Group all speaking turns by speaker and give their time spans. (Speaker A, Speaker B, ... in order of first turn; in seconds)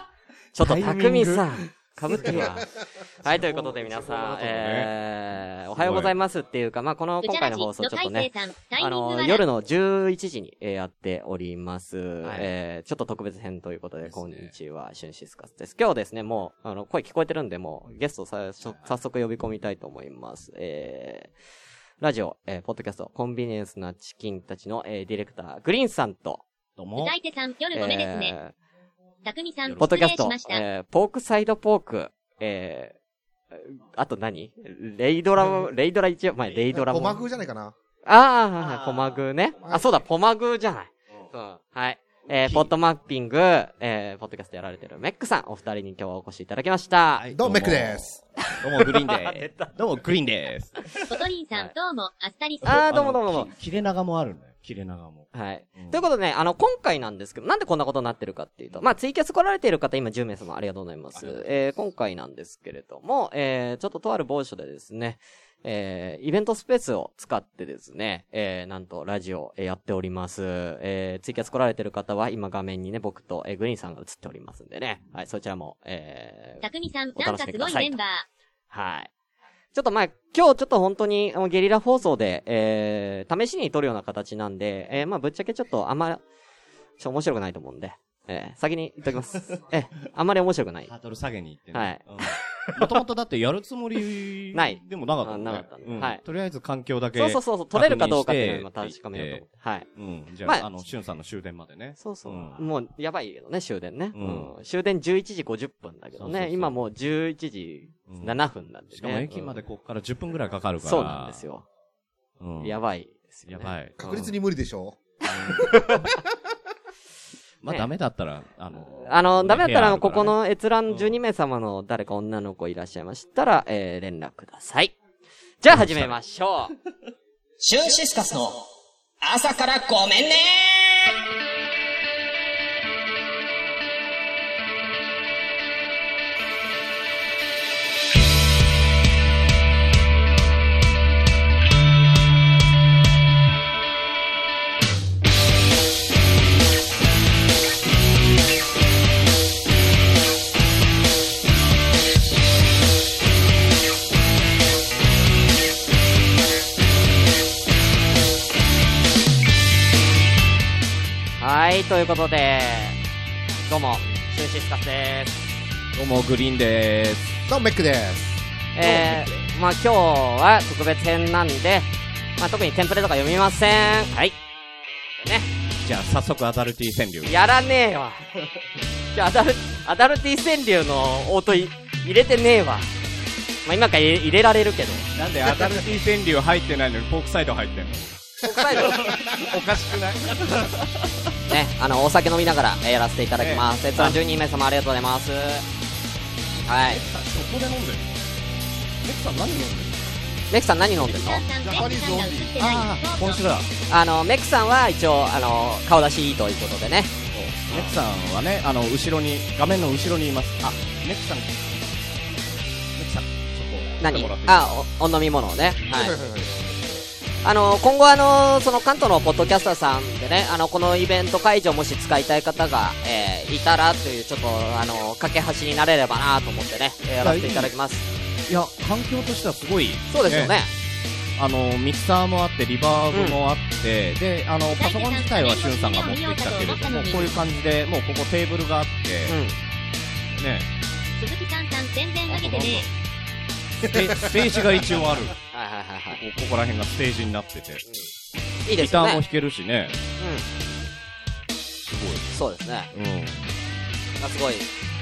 Speaker A: 0.5-2.7, 3.2-21.3, 22.0-26.4, 27.7-28.5, 29.8-32.9, 33.5-37.2, 38.0-47.3, 48.5-49.7, 52.6-53.5, 55.3-76.6, 77.2-78.0, 78.7-79.1, 79.7-86.2, 87.0-90.9, 91.7-92.0, 94.5-96.2, 97.2-99.9, 102.0-109.5, 110.8-111.7, 112.6-114.3, 115.7-116.0, 119.0-124.9, 125.6-126.7, 161.4-163.0, 163.7-165.6, 168.7-171.9, 172.4-174.3, 175.2-175.5, 177.2-178.2, 179.1-182.9, 183.6-185.1, 188.4-189.2, 191.5-195.6, 196.7-197.0, 200.5-201.4, 203.9-207.1, 207.7-207.9, 214.0-216.2, 217.4-228.1, 230.1-230.7, 233.1-233.4, 239.3-239.6, 245.5-246.2, 248.6-249.2, 250.2-250.4, 252.3-252.9, 254.2-254.7
Speaker B: 0.6-2.6, 3.2-4.9, 5.8-6.1, 12.2-12.5, 14.0-14.5, 26.8-27.1, 29.6-29.9, 38.6-39.2, 47.1-50.8, 52.6-56.0, 61.1-61.5, 90.9-102.6, 104.1-104.5, 106.2-106.8, 108.1-108.3, 108.9-111.4, 112.4-112.8, 113.5-114.0, 115.3-115.7, 117.6-120.3, 120.9-121.1, 125.7-126.1, 165.9-167.4, 168.8-169.3, 175.8-177.3, 185.1-190.9, 193.4-194.2, 196.9-198.1, 199.0-200.1, 202.6-203.7, 207.3-214.8, 227.2-227.7, 228.5-230.5, 231.4-239.3, 240.4-240.7, 242.3-242.8, 243.8-245.4, 246.2-247.8, 248.7-250.0, 251.9-252.2, 252.9-253.5
Speaker C: 7.2-9.4, 27.0-28.3, 29.2-30.6, 51.1-52.8, 76.6-78.3, 201.0-203.7, 234.7-237.3, 241.2-242.9
Speaker D: 36.7-37.7, 47.3-48.2, 114.0-115.0, 115.6-115.9, 167.5-168.4, 201.6-202.8, 215.9-217.0, 243.8-244.3
Speaker E: 127.6-131.0